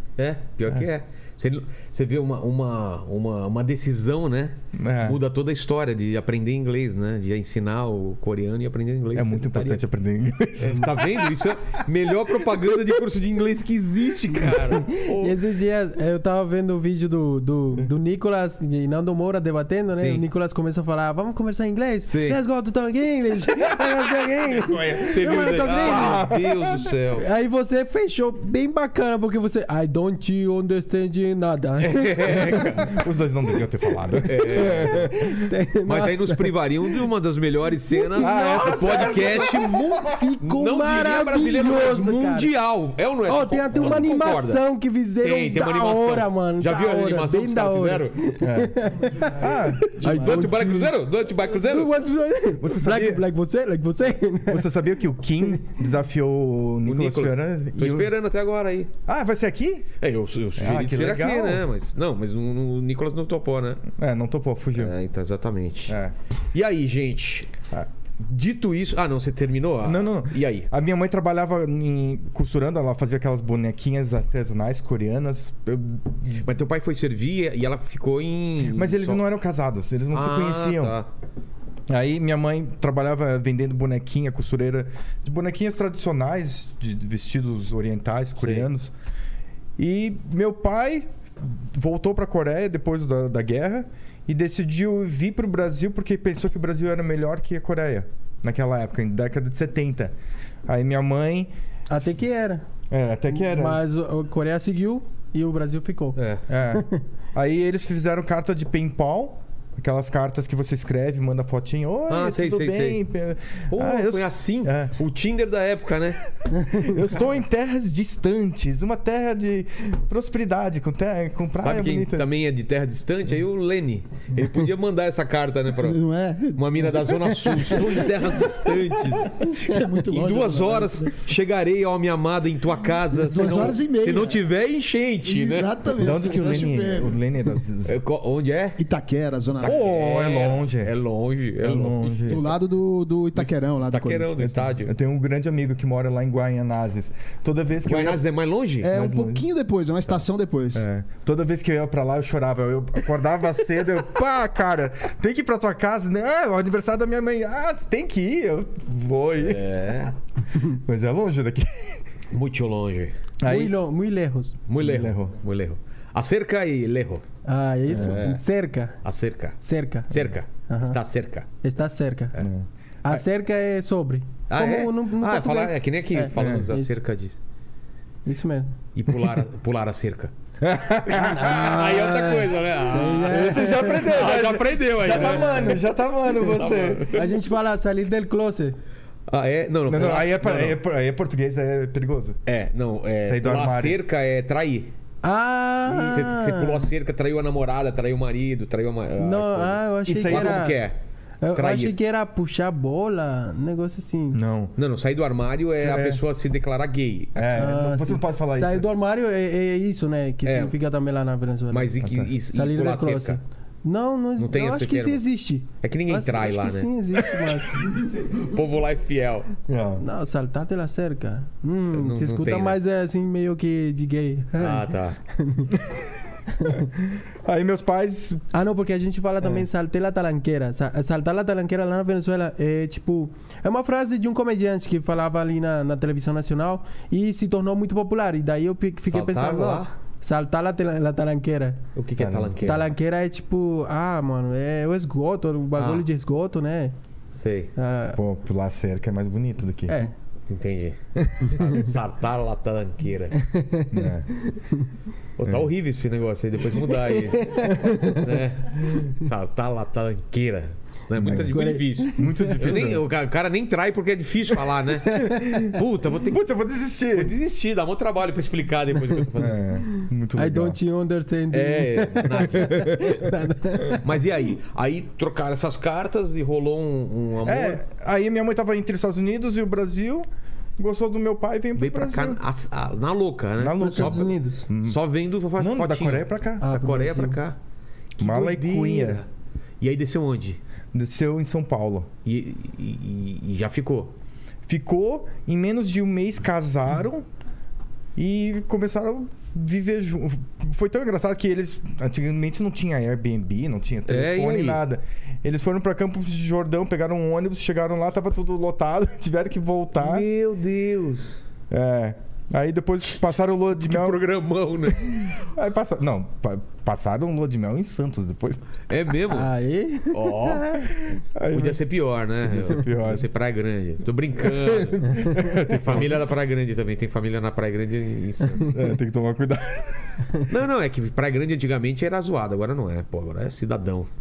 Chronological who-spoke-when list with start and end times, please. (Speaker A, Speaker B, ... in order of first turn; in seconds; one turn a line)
Speaker A: 0.2-9.8
Speaker B: 4.7-5.2
Speaker B: 9.1-11.4
Speaker A: 10.6-15.3
Speaker C: 14.9-26.3
Speaker A: 19.9-20.2
Speaker A: 22.1-22.4
Speaker B: 24.6-26.9
Speaker A: 25.0-27.2
Speaker C: 27.2-33.0
Speaker A: 31.8-33.0
Speaker B: 32.9-35.2
Speaker A: 34.2-35.1
Speaker C: 34.5-36.5
Speaker A: 35.9-44.6
Speaker C: 37.9-42.5
Speaker B: 38.2-39.7
Speaker C: 43.3-50.9
Speaker A: 45.2-48.2
Speaker B: 48.4-48.8
Speaker B: 49.3-50.2
Speaker A: 49.5-51.9
Speaker C: 51.6-54.7
Speaker B: 52.6-53.2
Speaker B: 54.5-58.1
Speaker A: 56.9-58.9
Speaker B: 59.1-59.9
Speaker A: 60.0-63.9
Speaker B: 60.6-61.7
Speaker B: 63.9-64.9
Speaker A: 64.8-66.0
Speaker B: 65.9-66.2
Speaker A: 66.5-67.5
Speaker A: 68.2-70.7
Speaker B: 69.8-76.4
Speaker A: 76.3-79.2
Speaker B: 78.7-81.0
Speaker A: 80.1-81.1
Speaker B: 81.9-88.9
Speaker A: 88.4-88.7
Speaker B: 89.8-100.1
Speaker B: 100.7-101.5
Speaker C: 101.9-102.6
Speaker B: 102.9-103.8
Speaker C: 103.3-106.2
Speaker A: 106.2-106.4
Speaker B: 106.5-115.0
Speaker C: 106.7-107.0
Speaker A: 112.1-113.0
Speaker A: 113.7-116.2
Speaker B: 116.5-122.3
Speaker A: 121.6-126.0
Speaker D: 125.8-131.1
Speaker A: 126.5-136.2
Speaker D: 133.1-134.4
Speaker D: 135.2-137.2
Speaker B: 136.0-137.9
Speaker A: 137.9-138.8
Speaker D: 138.8-139.8
Speaker A: 139.6-142.4
Speaker B: 139.6-140.9
Speaker B: 141.6-142.5
Speaker D: 142.3-144.4
Speaker A: 143.4-144.9
Speaker B: 144.4-148.2
Speaker A: 147.9-148.9
Speaker D: 148.8-150.9
Speaker B: 148.9-149.5
Speaker B: 150.7-159.9
Speaker A: 159.4-160.1
Speaker B: 160.7-162.0
Speaker A: 162.3-163.1
Speaker B: 163.4-163.8
Speaker C: 163.4-164.6
Speaker A: 164.7-167.2
Speaker B: 164.8-165.4
Speaker C: 167.4-169.0
Speaker B: 167.9-168.2
Speaker A: 168.0-168.4
Speaker A: 169.0-171.5
Speaker C: 169.6-170.2
Speaker C: 170.7-171.0
Speaker C: 171.6-172.4
Speaker B: 172.4-173.2
Speaker C: 173.1-177.0
Speaker A: 174.5-177.4
Speaker B: 176.3-176.7
Speaker C: 178.3-178.8
Speaker A: 178.9-180.3
Speaker B: 180.6-181.7
Speaker C: 181.1-184.2
Speaker A: 181.2-185.8
Speaker B: 183.3-187.1
Speaker A: 186.4-187.3
Speaker C: 187.1-188.8
Speaker A: 189.3-190.8
Speaker B: 189.9-192.4
Speaker A: 192.5-194.9
Speaker B: 193.2-194.0
Speaker C: 195.2-196.8
Speaker B: 195.9-196.2
Speaker A: 196.0-201.0
Speaker C: 199.2-200.8
Speaker B: 200.1-200.7
Speaker C: 201.4-204.4
Speaker A: 201.6-201.9
Speaker B: 204.3-204.7
Speaker A: 204.8-207.8
Speaker B: 205.8-206.2
Speaker B: 207.4-208.9
Speaker C: 207.6-211.9
Speaker A: 210.4-210.8
Speaker A: 211.7-213.4
Speaker B: 212.0-212.3
Speaker C: 212.5-217.8
Speaker A: 214.4-215.2
Speaker A: 215.8-217.2
Speaker A: 217.8-219.5
Speaker B: 219.7-220.0
Speaker C: 220.0-225.8
Speaker A: 221.9-222.8
Speaker A: 224.6-225.2
Speaker B: 225.7-226.0
Speaker B: 226.6-228.4
Speaker C: 228.5-241.8
Speaker A: 239.1-239.9
Speaker A: 241.9-242.9
Speaker B: 242.2-242.6
Speaker C: 242.6-246.9
Speaker A: 245.8-246.1
Speaker A: 247.3-247.7
Speaker C: 247.8-248.2
Speaker B: 248.1-250.1
Speaker C: 249.9-250.1
Speaker A: 250.5-253.4
Speaker B: 251.2-251.5
Speaker C: 253.4-253.9
Speaker B: 253.9-254.3
Speaker C: 254.5-254.8
Speaker A: 255.4-266.4
Speaker B: 255.4-255.7
Speaker C: 256.9-257.8
Speaker B: 257.7-258.2
Speaker B: 261.2-261.6
Speaker C: 261.3-262.6
Speaker B: 262.2-263.1
Speaker C: 265.1-265.4
Speaker B: 265.3-267.3
Speaker A: 267.1-269.6
Speaker B: 269.4-270.8
Speaker C: 270.4-274.1
Speaker A: 271.5-273.2
Speaker A: 274.0-277.8
Speaker B: 277.4-280.3
Speaker B: 280.8-282.4
Speaker A: 281.8-287.6
Speaker B: 283.6-285.0
Speaker C: 283.8-284.7
Speaker B: 285.6-286.6
Speaker C: 286.6-287.4
Speaker A: 288.2-289.3
Speaker B: 288.2-289.2
Speaker A: 289.8-290.6
Speaker B: 290.9-292.1
Speaker A: 292.2-294.1
Speaker B: 294.7-297.3
Speaker B: 298.2-310.3
Speaker A: 304.1-304.8
Speaker A: 310.0-311.4
Speaker B: 311.7-314.2
Speaker A: 313.8-315.4
Speaker B: 314.9-318.6
Speaker A: 318.9-319.5
Speaker C: 319.3-320.6
Speaker A: 320.1-321.0
Speaker B: 320.7-321.8
Speaker A: 321.5-328.8
Speaker B: 322.4-323.2
Speaker B: 324.6-326.2
Speaker B: 328.6-330.3
Speaker A: 330.4-334.1